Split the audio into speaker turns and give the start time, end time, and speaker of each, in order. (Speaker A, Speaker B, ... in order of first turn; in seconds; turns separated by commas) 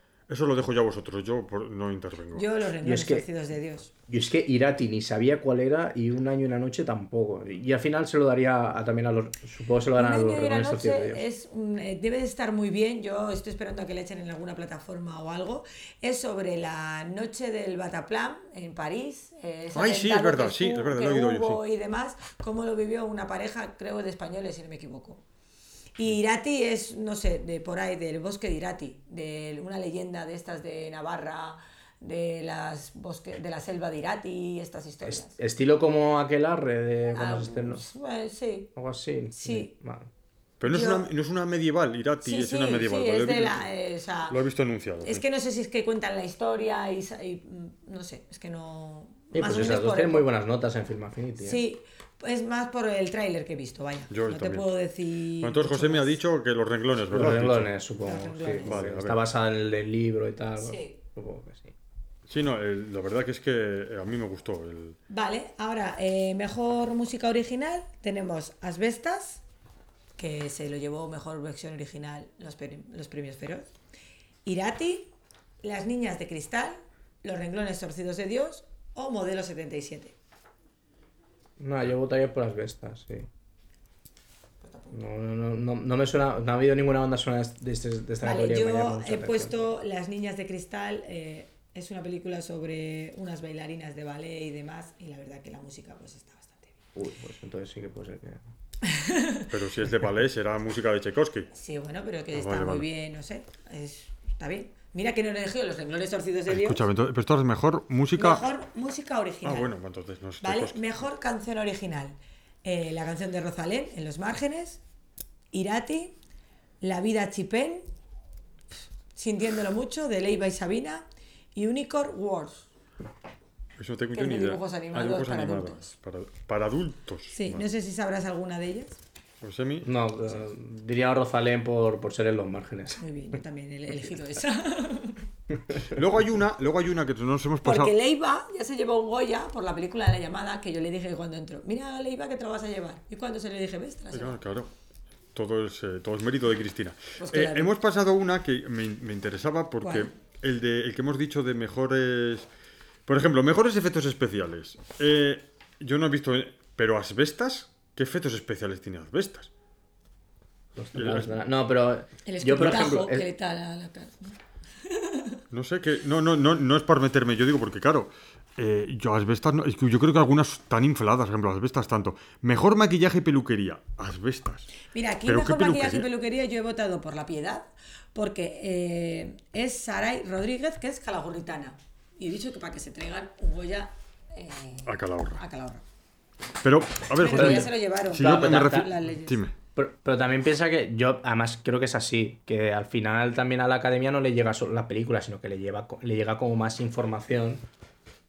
Speaker A: 0.3-2.5, Speaker B: 2.3-3.9, Speaker C: 2.8-3.3, Speaker C: 4.1-11.2, Speaker B: 9.9-25.2, Speaker A: 19.7-21.6, Speaker B: 26.0-35.4, Speaker C: 35.0-37.8, Speaker B: 37.1-38.7, Speaker C: 38.8-40.1, Speaker B: 39.3-39.7, Speaker A: 40.6-43.7, Speaker B: 40.6-41.0, Speaker B: 42.2-44.4, Speaker A: 44.3-45.2, Speaker B: 45.0-50.2, Speaker C: 49.3-51.6, Speaker B: 51.4-56.1, Speaker A: 54.1-54.7, Speaker A: 55.4-57.7, Speaker C: 57.1-61.7, Speaker B: 58.0-58.8, Speaker A: 58.6-59.2, Speaker B: 60.6-61.0, Speaker A: 62.3-65.0, Speaker B: 65.1-69.4, Speaker B: 70.2-73.7, Speaker B: 74.5-80.2, Speaker C: 81.6-83.3, Speaker B: 84.6-85.0, Speaker C: 84.9-89.7, Speaker B: 88.2-96.7, Speaker C: 96.9-98.4, Speaker B: 98.8-99.5, Speaker A: 99.5-101.5, Speaker B: 101.5-106.8, Speaker A: 102.3-102.8, Speaker A: 106.5-108.4, Speaker B: 108.2-109.7, Speaker A: 109.4-111.0, Speaker B: 110.4-114.8, Speaker B: 115.5-116.2, Speaker B: 116.8-117.8, Speaker B: 119.1-122.7, Speaker A: 123.8-127.6, Speaker B: 124.1-125.9, Speaker B: 127.3-129.0, Speaker A: 129.4-129.9, Speaker C: 129.8-133.0, Speaker B: 133.0-135.2, Speaker C: 135.7-136.0, Speaker A: 135.9-137.9, Speaker B: 137.6-144.4, Speaker A: 144.1-144.7, Speaker A: 145.3-152.5, Speaker B: 147.2-147.7, Speaker B: 149.8-150.1, Speaker A: 153.1-159.5, Speaker C: 160.8-163.2, Speaker A: 160.9-161.3, Speaker B: 162.2-165.4, Speaker A: 165.5-174.7, Speaker B: 174.9-185.8, Speaker A: 175.2-176.1, Speaker A: 184.9-185.4, Speaker A: 186.6-189.5, Speaker B: 187.1-189.4, Speaker C: 187.3-188.9, Speaker C: 189.8-197.6